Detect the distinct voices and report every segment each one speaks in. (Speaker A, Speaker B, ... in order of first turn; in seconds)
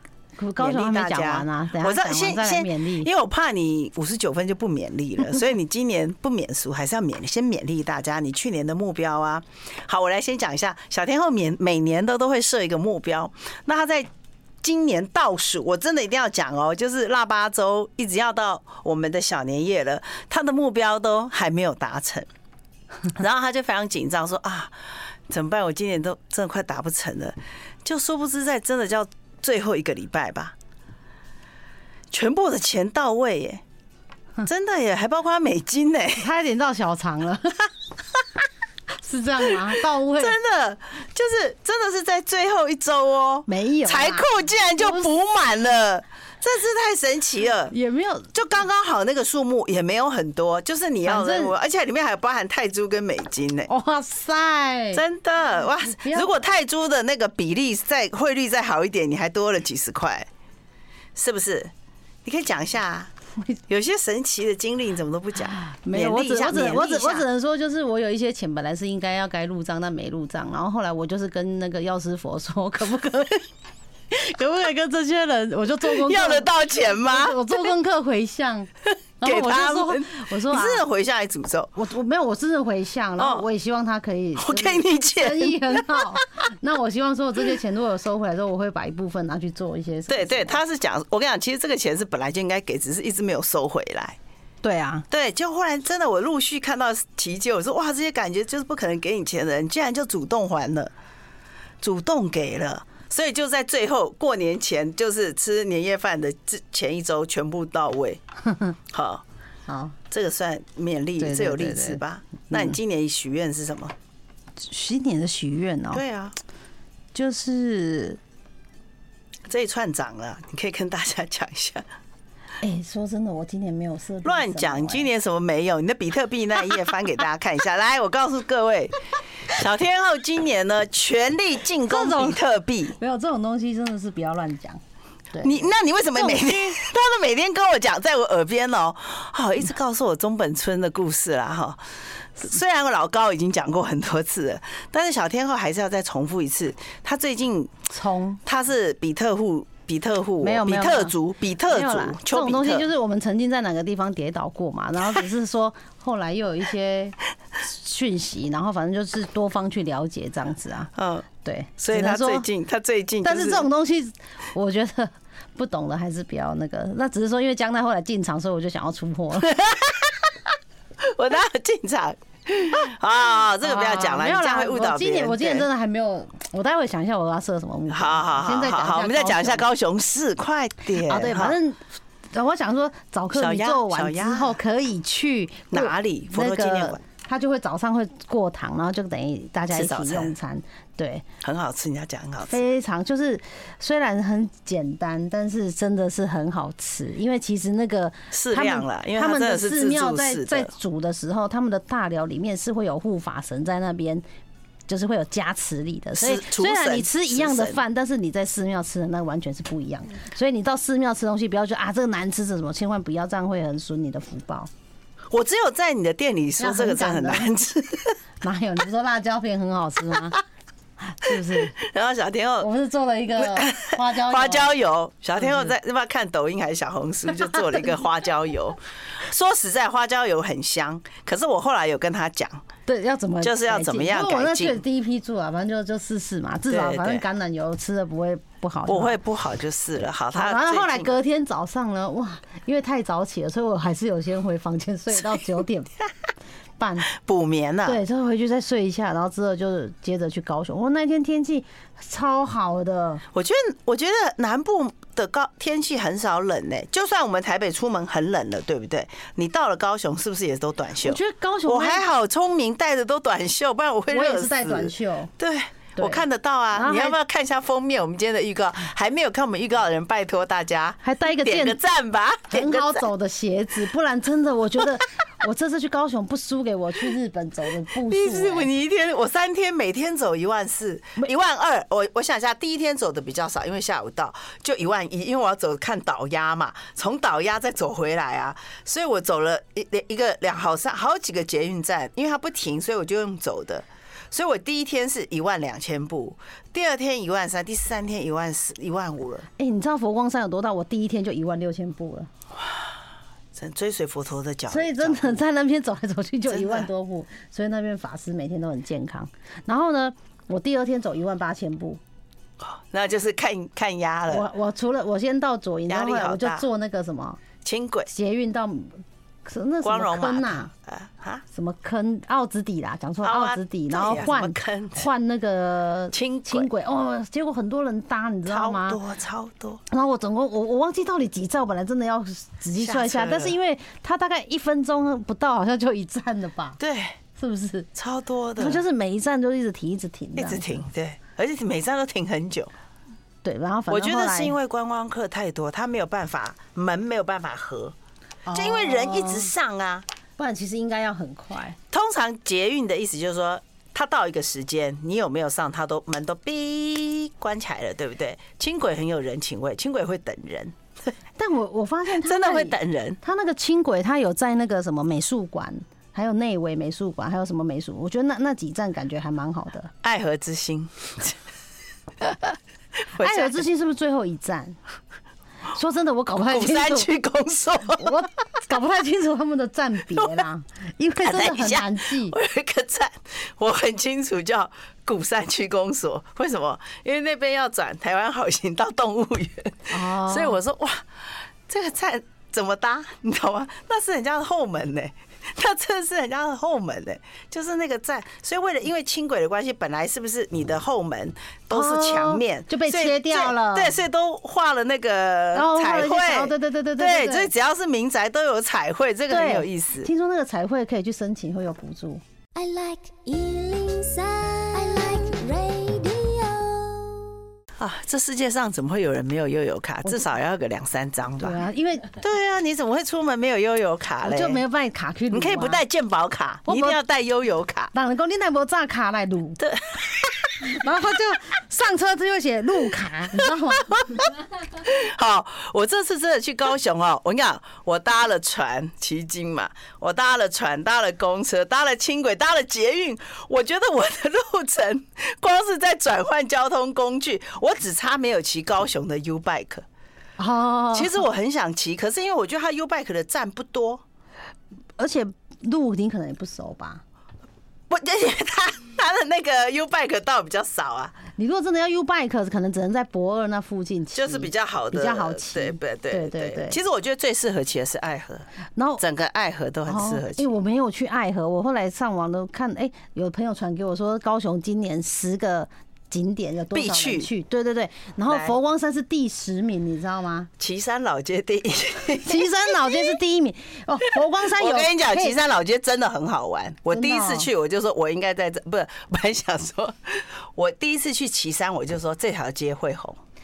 Speaker A: 0.4-3.1, 36.2-37.7, 39.0-40.4, 43.5-45.1, 47.7-48.3, 51.0-51.5, 53.7-55.0, 55.9-56.3, 65.5-73.5, 74.1-78.7, 79.2-80.8, 81.8-90.6, 94.6-95.1, 109.7-110.0, 111.2-112.8, 114.6-116.0, 117.1-118.2, 122.6-125.1, 131.9-132.4, 133.0-134.8, 135.3-136.8, 147.9-148.4, 150.4-151.2, 151.7-160.9, 161.4-162.5, 163.2-169.6, 173.6-179.7, 181.0-191.3, 192.5-204.2, 204.9-214.7, 216.6-217.5, 218.4-220.4, 221.0-221.8, 222.6-224.7, 225.4-225.7, 232.9-239.2, 240.3-246.0, 246.8-247.1, 247.8-253.2, 261.0-262.1, 264.1-265.3, 266.0-266.2, 266.7-267.2, 271.0-271.8, 272.5-278.7, 299.6-302.3, 304.7-312.0, 314.3-317.4, 318.1-320.7, 321.5-329.0, 329.9-336.8, 337.4-337.9, 338.6-340.8, 343.4-344.6, 348.5-349.5, 350.4-351.8, 361.4-369.9, 373.1-374.8, 375.7-377.1, 377.9-382.4, 389.9-390.6, 401.7-404.0, 405.5-407.5, 409.3-412.2, 421.4-422.1, 424.2-425.8, 426.7-427.0, 427.9-429.6, 430.6-434.2, 450.4-451.2, 455.0-457.0, 461.4-466.8, 468.8-469.0, 469.9-480.5, 482.2-485.4, 486.9-487.5
Speaker B: 0.6-14.1, 14.6-22.3, 23.1-24.8, 25.3-30.6, 32.1-33.6, 34.5-36.3, 40.2-47.7, 48.3-53.7, 54.9-60.3, 61.2-61.7, 62.2-63.1, 63.7-67.3, 75.8-77.4, 79.2-81.7, 83.2-83.5, 84.4-86.2, 90.1-94.2, 95.1-100.9, 101.8-108.2, 108.9-109.2, 110.1-113.9, 115.9-116.3, 119.5-121.9, 124.2-129.0, 129.5-133.0, 135.4-147.9, 148.4-152.9, 161.0-161.3, 161.8-163.7, 169.4-170.2, 171.0-175.7, 177.9-181.6, 183.3-184.6, 185.7-187.0, 189.7-190.3, 191.4-192.6, 198.3-200.7, 206.2-207.8, 215.3-218.2, 221.3-222.7, 223.4-232.7, 233.4-234.8, 236.7-237.2, 238.9-241.2, 247.1-248.0, 253.3-273.1, 278.1-299.5, 302.6-302.9, 303.5-305.4, 306.5-306.9, 312.6-314.5, 315.9-316.7, 317.6-318.1, 319.8-321.4, 323.2-325.1, 326.1-326.7, 328.5-329.8, 332.8-333.6, 336.8-337.2, 337.9-338.8, 340.4-342.7, 343.9-347.9, 348.5-350.1, 351.9-360.8, 362.2-363.2, 370.0-371.4, 372.2-372.5, 373.1-373.6, 376.5-378.2, 380.2-380.5, 381.2-391.1, 391.7-410.1, 417.8-424.6, 425.3-427.9, 429.6-430.6, 433.9-449.9, 450.9-454.0, 457.9-461.2, 464.1-468.5, 469.0-470.5, 476.7-477.3, 478.3-478.6, 480.6-483.2, 484.4-493.2
Speaker C: 412.6-417.3